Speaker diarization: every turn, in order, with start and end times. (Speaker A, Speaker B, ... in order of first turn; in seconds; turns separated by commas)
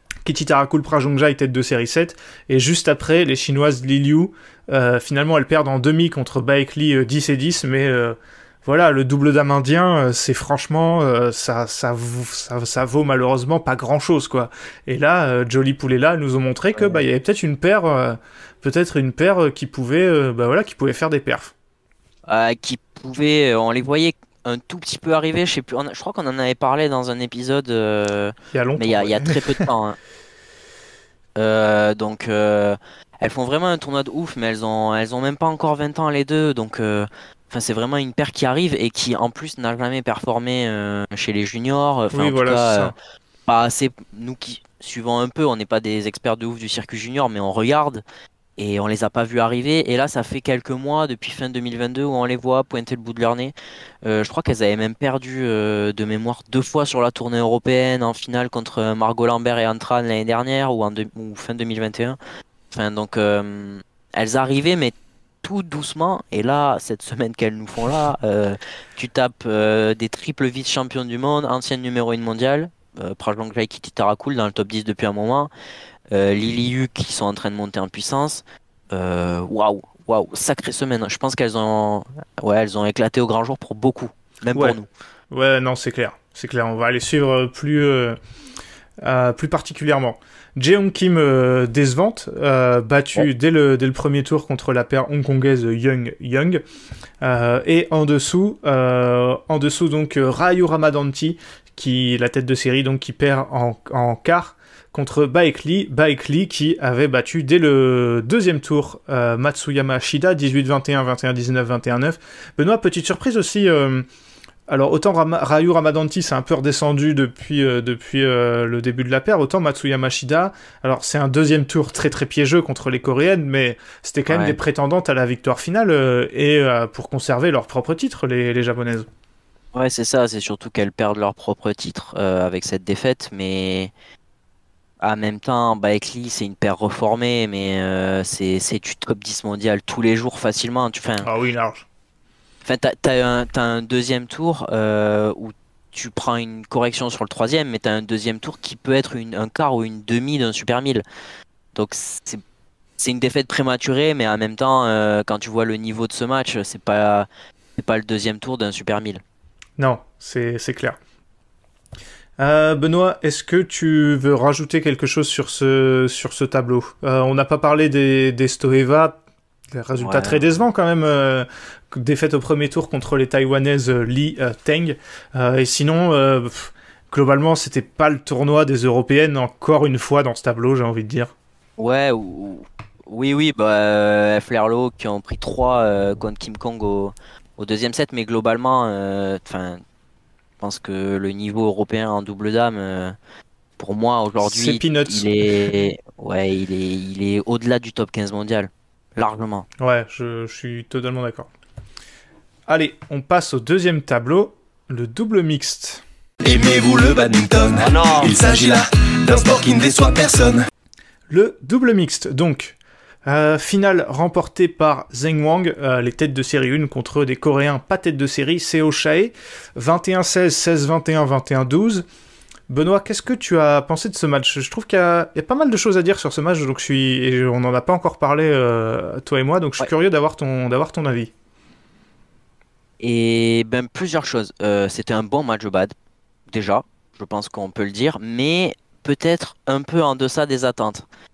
Speaker A: 0.2-21.5, Speaker B: 16.8-17.0, Speaker B: 22.3-30.0, Speaker A: 28.5-29.6, Speaker B: 31.4-42.9, Speaker A: 42.1-42.9, Speaker B: 43.5-48.0, Speaker B: 48.6-62.2, Speaker B: 62.7-75.5, Speaker B: 76.1-84.9, Speaker A: 85.3-88.2, Speaker A: 89.0-96.6, Speaker A: 97.2-114.0, Speaker A: 114.7-129.1, Speaker B: 124.3-124.5, Speaker B: 129.7-133.9, Speaker B: 135.0-141.3, Speaker A: 141.2-141.8, Speaker B: 142.6-151.0, Speaker B: 151.7-152.4, Speaker B: 153.0-159.2, Speaker A: 159.8-161.0, Speaker A: 162.4-169.2, Speaker A: 169.7-181.3, Speaker B: 170.0-170.4, Speaker B: 181.8-189.8, Speaker B: 190.6-193.1, Speaker B: 193.8-199.7, Speaker A: 194.4-195.3, Speaker A: 199.8-201.5, Speaker A: 202.7-206.0, Speaker C: 206.4-210.6, Speaker A: 211.3-222.1, Speaker A: 222.7-231.3, Speaker B: 233.0-235.9, Speaker B: 236.5-241.0